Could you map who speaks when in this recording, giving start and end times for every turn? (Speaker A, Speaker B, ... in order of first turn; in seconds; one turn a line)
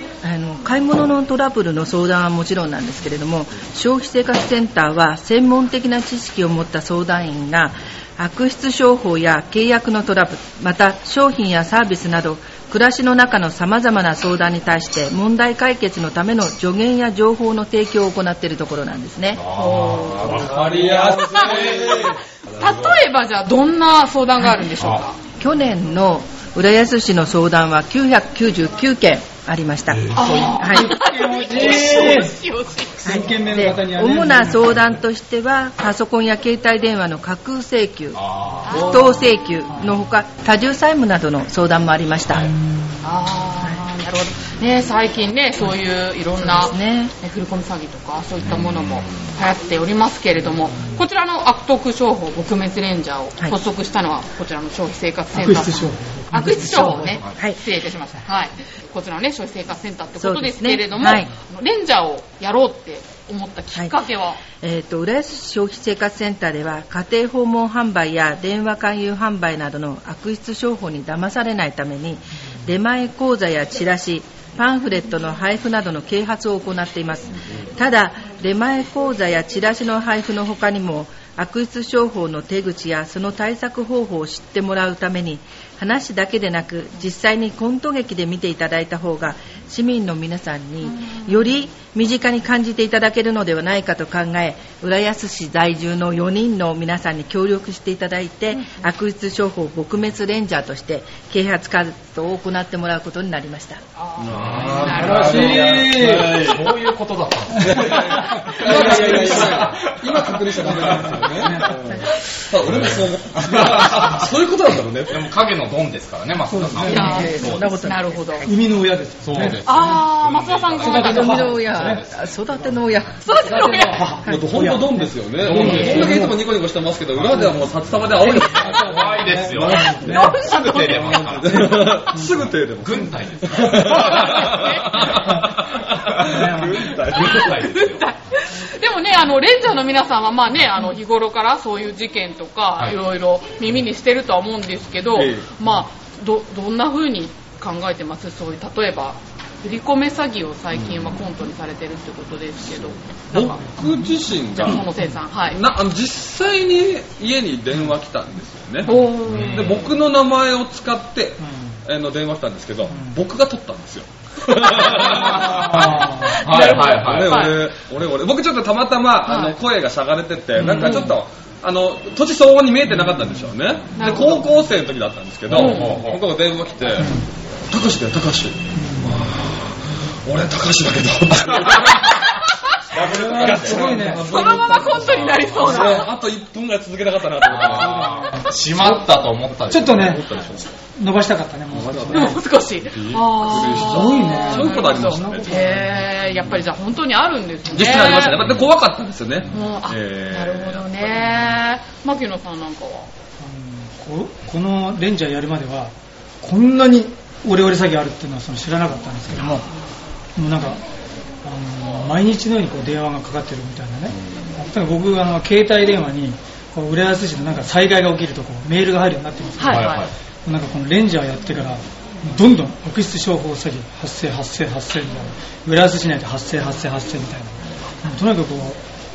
Speaker A: 0.2-19.4
Speaker B: 19.4-22.0
Speaker C: 19.5-21.9
Speaker D: 20.3-22.7
Speaker C: 22.6-25.1
Speaker A: 25.4-30.9
Speaker C: 30.1-33.2
Speaker E: 30.6-32.4
Speaker E: 33.0-34.6
Speaker A: 33.0-42.5
Speaker B: 38.1-39.0
Speaker C: 38.7-39.1
Speaker C: 43.0-64.4
Speaker A: 46.4-47.1
Speaker B: 48.4-49.3
Speaker E: 55.3-57.0
Speaker A: 56.4-57.6
Speaker A: 60.2-61.3
Speaker A: 64.6-103.8
Speaker D: 104.2-106.7
Speaker B: 104.3-111.2
Speaker C: 104.5-105.5
Speaker E: 104.8-106.4
Speaker D: 107.6-115.3
Speaker E: 107.7-109.9
Speaker E: 110.7-111.8
Speaker B: 112.6-114.3
Speaker B: 115.1-117.9
Speaker E: 116.5-117.3
Speaker C: 116.8-118.5
Speaker A: 116.9-118.5
Speaker E: 118.4-119.6
Speaker B: 119.2-122.3
Speaker C: 119.6-121.5
Speaker E: 120.8-122.0
Speaker A: 121.0-123.3
Speaker C: 123.2-124.0
Speaker E: 123.4-126.4
Speaker A: 124.2-124.5
Speaker D: 124.2-130.2
Speaker B: 125.4-126.2
Speaker C: 125.6-126.0
Speaker E: 127.3-127.5
Speaker E: 128.2-130.4
Speaker B: 128.7-132.2
Speaker C: 129.8-131.8
Speaker E: 131.0-132.3
Speaker D: 131.1-137.7
Speaker B: 132.8-138.1
Speaker E: 133.7-133.9
Speaker C: 134.3-134.9
Speaker E: 136.2-136.8
Speaker C: 137.1-153.6
Speaker D: 145.1-145.6
Speaker D: 153.3-154.8
Speaker E: 153.8-154.1
Speaker C: 154.5-155.6
Speaker D: 155.5-165.9
Speaker C: 158.8-159.7
Speaker B: 159.3-159.9
Speaker E: 161.4-161.7
Speaker E: 162.9-163.2
Speaker B: 164.8-167.5
Speaker E: 165.4-166.4
Speaker C: 166.2-167.7
Speaker D: 166.5-182.2
Speaker C: 169.2-169.6
Speaker C: 170.7-171.2
Speaker C: 173.9-174.5
Speaker C: 175.5-175.9
Speaker B: 175.5-176.2
Speaker E: 177.0-177.3
Speaker E: 178.7-179.2
Speaker B: 181.5-182.2
Speaker B: 182.9-184.2
Speaker E: 183.0-184.5
Speaker D: 183.1-188.2
Speaker C: 184.2-186.1
Speaker B: 184.8-186.1
Speaker B: 187.4-190.2
Speaker E: 187.7-188.9
Speaker E: 189.7-190.2
Speaker D: 189.7-190.8
Speaker E: 190.9-192.4
Speaker D: 191.7-196.0
Speaker C: 192.1-198.4
Speaker E: 193.5-195.8
Speaker D: 197.7-201.2
Speaker B: 198.4-198.6
Speaker C: 199.5-203.1
Speaker E: 203.4-209.7
Speaker E: 210.3-210.8
Speaker E: 211.4-228.8
Speaker C: 219.6-220.1
Speaker B: 219.7-220.1